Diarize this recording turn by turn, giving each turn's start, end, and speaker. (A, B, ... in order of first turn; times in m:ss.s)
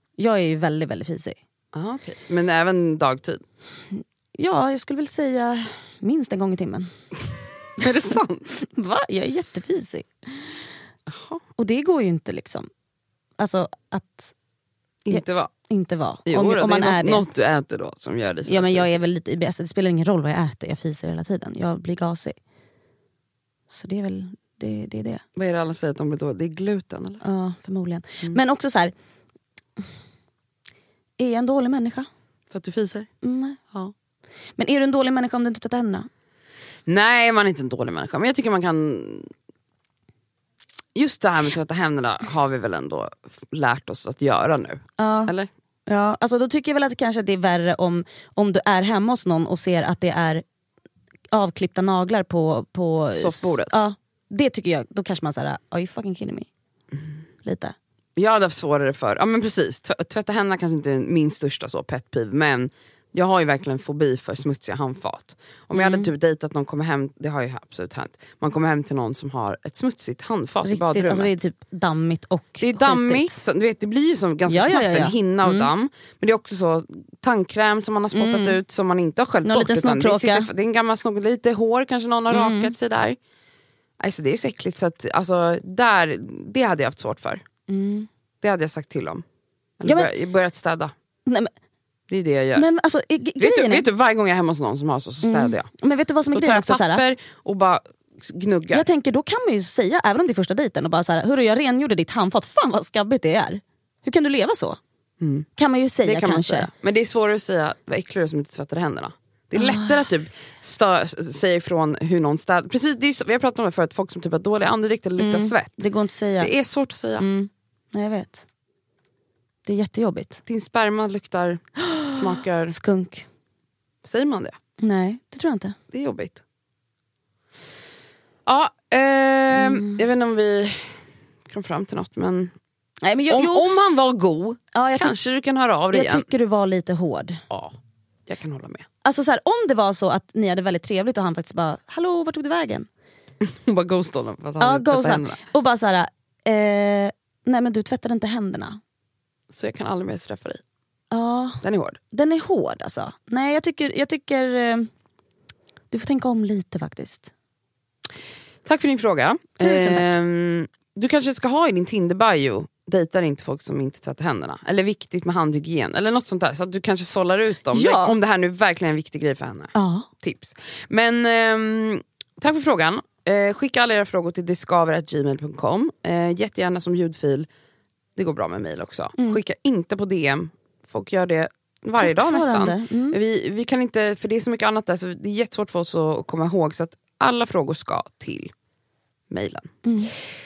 0:00.2-0:01.4 A
0:01.7-0:03.4 B
0:04.3-0:06.9 A
0:07.8-0:08.5 B
0:08.6-0:10.1 A
0:11.1-0:11.4 B
0:11.6-0:12.7 A
0:13.4-0:14.3 A
0:15.0-0:15.5 B
0:15.1-0:17.2 A
0:16.2-0:19.0 B
0:18.4-0:22.4 A
0:23.7-0:25.2 A
0:25.4-0:27.2 B
0:27.2-0:28.9 A
0:31.2-0:32.1 A
0:32.5-0:33.1 B
0:33.2-0:33.6 A
0:34.6-0:36.1 A
0:36.9-0:39.3 B
0:40.9-0:45.5 B
0:45.0-0:45.3 A
0:45.9-0:50.4 A
0:51.3-0:56.5 A
0:53.1-0:53.7 B
0:57.4-0:57.7 A
0:58.2-1:11.3 B
1:05.7-1:06.1 A
1:10.6-1:13.4 A
1:12.6-1:23.2 B
1:14.5-1:15.7 A
1:18.1-1:18.6 A
1:19.4-1:20.5 A
1:22.3-1:22.7 A
1:24.0-1:27.4 B
1:27.7-1:28.1 A
1:28.4-1:29.2 B
1:29.8-1:30.9 B
1:29.8-1:30.1 A
1:31.2-1:31.5 A
1:32.1-1:32.7 B
1:32.5-1:33.9 A
1:33.4-1:35.7 B
1:35.2-1:37.0 A
1:36.3-1:38.8 B
1:38.7-1:44.8 A
1:45.2-1:45.5 B
1:45.6-1:46.7 A
1:46.0-1:55.8 B
1:49.5-1:50.1 A
1:55.2-1:56.5 A
1:56.4-1:57.2 B
1:57.2-1:58.4 A
1:59.6-2:00.4 A
2:00.4-2:02.8 B
2:01.9-2:03.2 A
2:04.0-2:04.5 B
2:04.8-2:05.8 A
2:05.9-2:06.4 B
2:08.4-2:10.9 B
2:09.5-2:10.0 A
2:11.5-2:12.5 B
2:13.0-2:13.7 A
2:13.3-2:16.3 B
2:14.7-2:15.2 A
2:15.9-2:17.4 A
2:17.5-2:17.7 B
2:18.3-2:18.8 B
2:19.0-2:22.9 A
2:23.4-2:25.4 B
2:24.6-2:28.8 A
2:29.5-2:30.6 B
2:31.1-2:34.9 A
2:31.6-2:32.0 B
2:35.9-2:37.3 A
2:38.6-2:57.5 B
2:39.6-2:40.1 A
2:47.7-2:48.1 A
2:49.7-2:50.1 A
2:58.2-3:08.5 B
3:02.0-3:03.2 A
3:09.3-3:09.7 B
3:09.8-3:10.1 A